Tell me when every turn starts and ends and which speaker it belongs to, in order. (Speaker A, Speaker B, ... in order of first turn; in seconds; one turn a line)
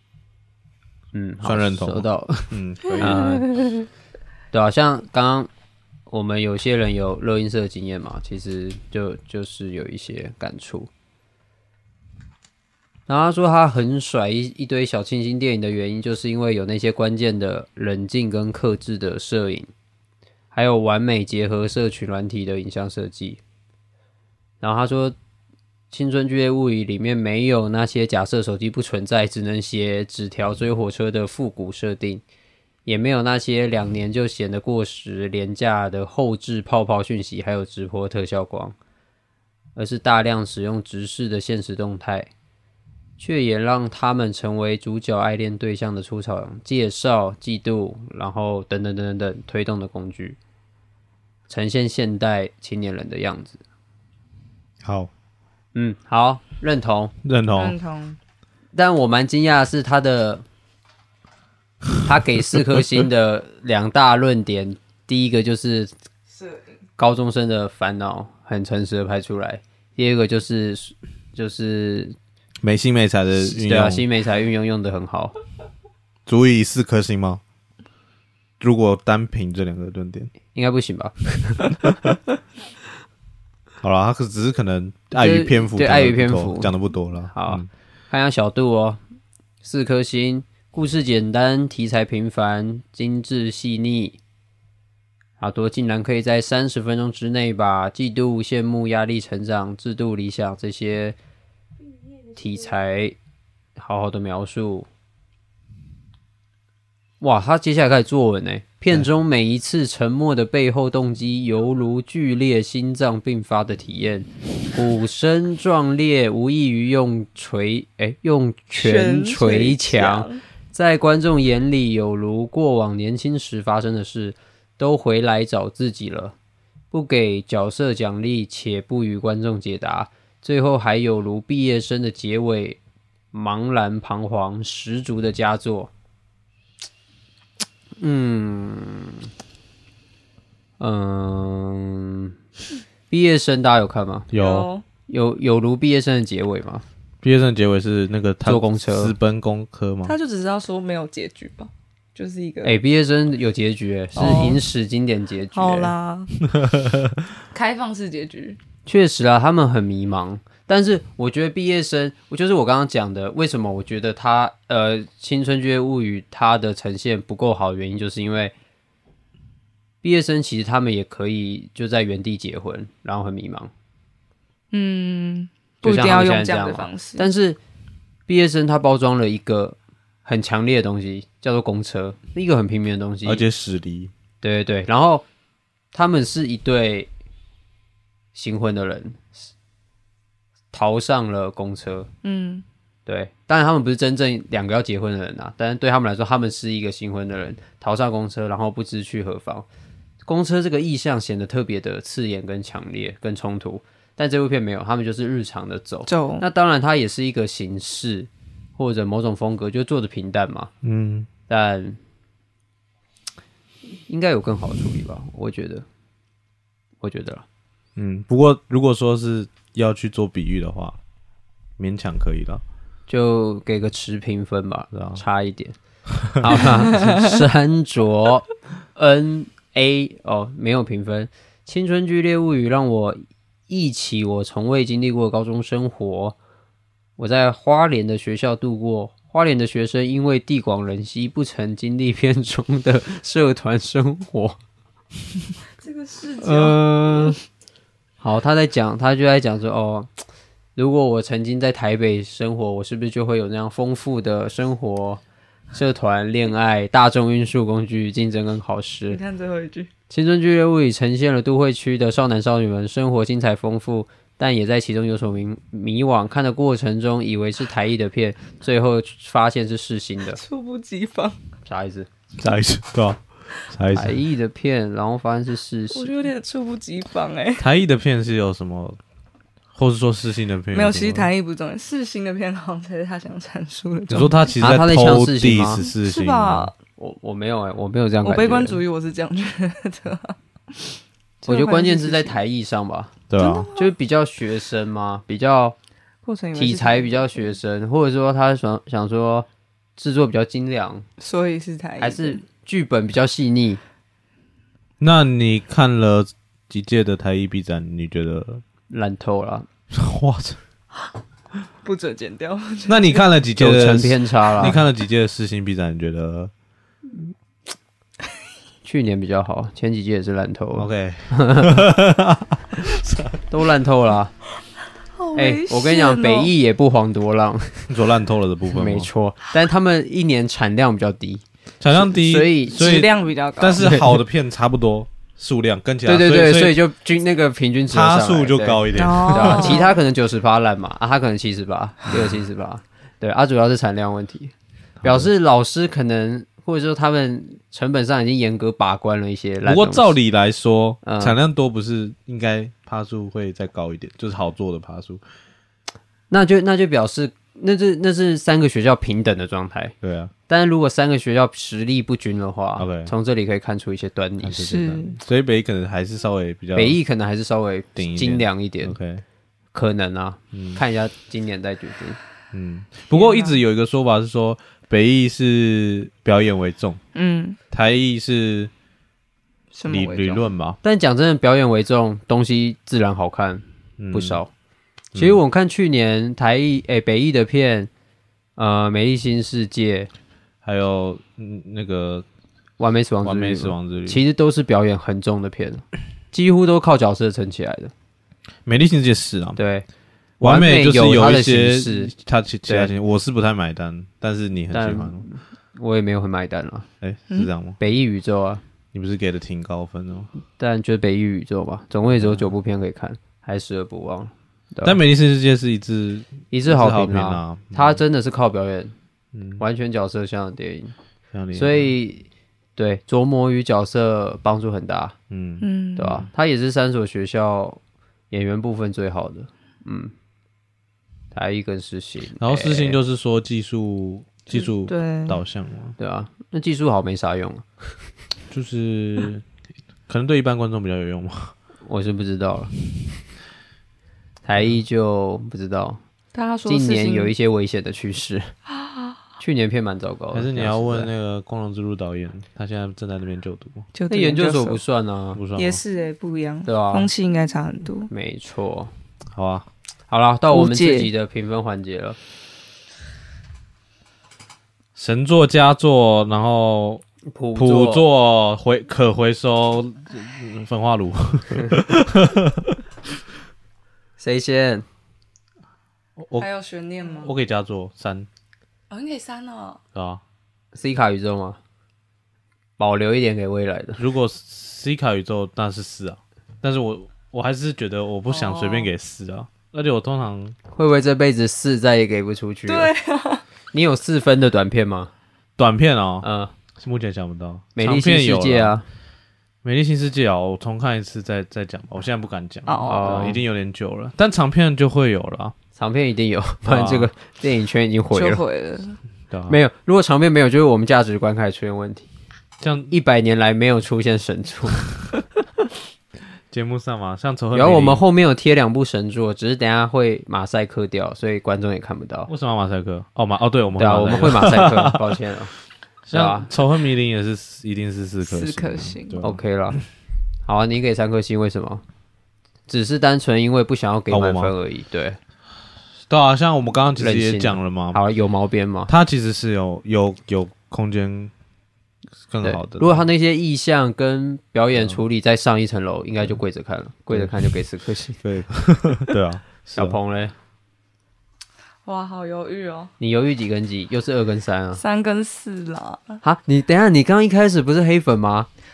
Speaker A: 1.1-3.6
Speaker B: 1.4-3.2
Speaker A: 4.5-5.5
Speaker A: 6.1-10.9
Speaker A: 13.1-19.7
Speaker A: 20.5-23.4
Speaker A: 24.6-25.1
Speaker A: 25.9-32.2
Speaker A: 32.9-38.8
Speaker A: 39.8-42.3
Speaker A: 43.2-50.4
Speaker A: 51.5-53.6
Speaker B: 54.8-55.1
Speaker A: 55.7-57.1
Speaker B: 57.2-57.8
Speaker C: 57.5-58.2
Speaker A: 58.7-60.4
Speaker A: 62.0-65.9
Speaker A: 67.0-72.2
Speaker B: 72.6-74.0
Speaker A: 73.4-75.3
Speaker B: 76.2-77.4
Speaker B: 78.6-80.3
Speaker A: 80.5-81.9
Speaker B: 81.8-82.1
Speaker B: 83.8-87.7
Speaker A: 85.1-86.7
Speaker A: 87.3-89.0
Speaker A: 89.6-94.2
Speaker A: 95.4-101.2
Speaker A: 102.3-103.2
Speaker A: 103.8-104.9
Speaker A: 107.2-126.3
Speaker C: 118.8-120.4
Speaker A: 126.9-132.8
Speaker A: 133.3-135.9
Speaker A: 138.0-139.3
Speaker A: 140.8-142.3
Speaker A: 143.1-144.3
Speaker B: 144.3-144.7
Speaker C: 144.3-144.8
Speaker A: 145.1-146.8
Speaker B: 147.2-150.1
Speaker A: 148.4-149.1
Speaker C: 150.1-152.7
Speaker A: 152.6-155.9
Speaker C: 154.2-154.6
Speaker C: 155.5-156.3
Speaker B: 156.4-157.3
Speaker C: 157.5-158.6
Speaker A: 158.8-168.5
Speaker A: 170.0-173.7
Speaker C: 174.7-177.3
Speaker A: 175.8-177.6
Speaker A: 178.3-183.4
Speaker B: 183.2-184.1
Speaker A: 184.4-185.2
Speaker A: 185.9-187.1
Speaker A: 188.3-189.3
Speaker A: 190.7-192.1
Speaker C: 192.2-192.6
Speaker A: 193.1-199.7
Speaker A: 200.2-210.7
Speaker C: 206.1-206.4
Speaker B: 210.8-211.3
Speaker A: 211.5-212.0
Speaker A: 214.1-215.8
Speaker A: 217.0-217.4
Speaker B: 217.9-221.0
Speaker B: 221.8-222.6
Speaker A: 223.1-225.8
Speaker B: 224.9-225.2
Speaker B: 226.2-226.6
Speaker A: 226.3-236.3
Speaker C: 226.7-227.4
Speaker A: 237.2-244.6
Speaker C: 245.8-247.3
Speaker A: 246.4-247.4
Speaker A: 248.2-250.1
Speaker A: 250.8-255.2
Speaker A: 255.7-259.2
Speaker C: 259.1-259.9
Speaker A: 260.1-270.4
Speaker C: 270.3-271.4
Speaker A: 271.6-272.1
Speaker B: 272.4-274.2
Speaker A: 273.9-276.1
Speaker C: 275.9-277.7
Speaker B: 277.6-279.0
Speaker B: 279.7-281.3
Speaker C: 280.7-284.6
Speaker B: 284.1-286.7
Speaker A: 284.6-285.9
Speaker C: 285.8-286.8
Speaker A: 287.0-288.8
Speaker C: 288.2-292.4
Speaker A: 291.4-293.2
Speaker B: 293.3-293.7
Speaker C: 293.4-293.9
Speaker A: 293.8-295.7
Speaker C: 296.2-297.6
Speaker A: 296.5-301.1
Speaker C: 301.2-302.4
Speaker A: 302.0-303.8
Speaker B: 305.0-308.6
Speaker A: 308.9-309.7
Speaker B: 309.9-310.6
Speaker C: 311.8-313.2
Speaker B: 312.9-316.5
Speaker A: 313.6-314.8
Speaker A: 318.8-321.9
Speaker B: 320.7-323.4
Speaker A: 323.5-324.3
Speaker C: 325.1-326.5
Speaker A: 325.3-327.9
Speaker B: 327.9-329.1
Speaker A: 328.7-333.0
Speaker B: 331.8-336.8
Speaker C: 332.7-333.9
Speaker A: 333.8-334.2
Speaker A: 336.0-350.1
Speaker B: 337.9-339.9
Speaker C: 338.9-340.0
Speaker B: 345.0-345.3
Speaker B: 349.6-355.2
Speaker A: 351.0-351.4
Speaker A: 356.3-359.9
Speaker B: 360.0-360.3
Speaker A: 360.5-364.7
Speaker B: 362.8-363.1
Speaker B: 364.4-367.0
Speaker C: 364.6-365.2
Speaker A: 366.7-368.9
Speaker B: 368.0-369.2
Speaker A: 369.7-372.2
Speaker B: 370.5-370.8
Speaker B: 372.5-377.0
Speaker C: 373.1-373.6
Speaker C: 377.1-377.6
Speaker B: 377.7-378.7
Speaker C: 379.7-380.4
Speaker B: 379.9-380.8
Speaker A: 380.8-384.5
Speaker B: 384.0-384.4
Speaker B: 385.1-385.4
Speaker A: 385.1-387.9
Speaker A: 388.6-390.1
Speaker B: 390.6-392.2
Speaker A: 392.8-397.9
Speaker B: 393.2-394.2
Speaker B: 398.6-399.6
Speaker A: 399.6-399.9
Speaker A: 400.4-402.1
Speaker B: 400.4-405.2
Speaker A: 404.7-406.9
Speaker B: 407.0-407.8
Speaker A: 407.8-408.6
Speaker B: 408.9-410.3
Speaker A: 410.6-415.0
Speaker B: 412.2-412.5
Speaker B: 414.8-418.0
Speaker A: 416.5-418.9
Speaker B: 419.3-419.6
Speaker A: 419.6-420.9
Speaker B: 421.3-421.9
Speaker A: 421.5-425.1
Speaker B: 425.3-426.3
Speaker C: 425.6-426.2
Speaker A: 425.9-427.8
Speaker A: 428.3-430.1
Speaker A: 431.3-433.0
Speaker B: 432.4-435.9
Speaker C: 434.5-435.4
Speaker A: 436.0-437.7
Speaker B: 438.5-439.4
Speaker B: 440.1-441.5
Speaker A: 441.8-442.7
Speaker A: 444.4-446.0
Speaker C: 446.3-447.3
Speaker A: 446.6-448.5
Speaker C: 448.7-449.1
Speaker A: 449.4-451.1
Speaker B: 450.3-453.9
Speaker C: 453.9-454.8
Speaker A: 454.1-455.4
Speaker B: 455.3-455.8
Speaker C: 455.6-458.1
Speaker A: 456.6-457.1
Speaker A: 458.1-458.9
Speaker B: 459.3-459.7
Speaker A: 460.1-462.2
Speaker C: 460.5-461.1
Speaker B: 464.9-467.0
Speaker A: 467.3-468.0
Speaker B: 467.5-472.8
Speaker A: 474.2-474.9
Speaker B: 476.2-476.5
Speaker C: 476.3-477.3
Speaker B: 477.2-478.3
Speaker C: 478.9-479.8
Speaker B: 479.9-480.2
Speaker A: 480.7-481.6
Speaker A: 482.8-484.0
Speaker B: 484.0-490.6
Speaker C: 488.3-488.9
Speaker A: 490.7-492.9
Speaker C: 492.7-493.4
Speaker A: 493.7-495.1
Speaker B: 495.6-498.8
Speaker A: 496.2-496.5
Speaker A: 497.7-498.9
Speaker B: 499.6-505.6
Speaker C: 502.7-503.3
Speaker A: 502.8-503.4
Speaker A: 505.7-508.4
Speaker B: 506.6-507.1
Speaker C: 508.1-509.0
Speaker B: 509.3-509.6
Speaker A: 509.5-512.1
Speaker B: 512.6-512.9
Speaker A: 512.9-514.8
Speaker B: 516.5-518.0
Speaker A: 517.5-522.3
Speaker B: 522.3-525.2
Speaker A: 523.8-525.5
Speaker B: 526.0-529.4
Speaker A: 526.1-526.5
Speaker C: 528.2-529.2
Speaker A: 529.2-529.8
Speaker A: 530.5-531.8
Speaker A: 532.7-535.2
Speaker B: 534.1-534.5
Speaker B: 536.1-538.0
Speaker A: 537.0-538.9
Speaker B: 538.9-541.3
Speaker B: 542.3-543.0
Speaker A: 542.4-548.2
Speaker B: 544.8-545.0
Speaker B: 547.1-547.5
Speaker B: 548.2-550.0
Speaker A: 549.7-550.3
Speaker C: 551.8-552.9
Speaker A: 553.0-554.8
Speaker C: 554.8-556.2
Speaker A: 556.2-558.5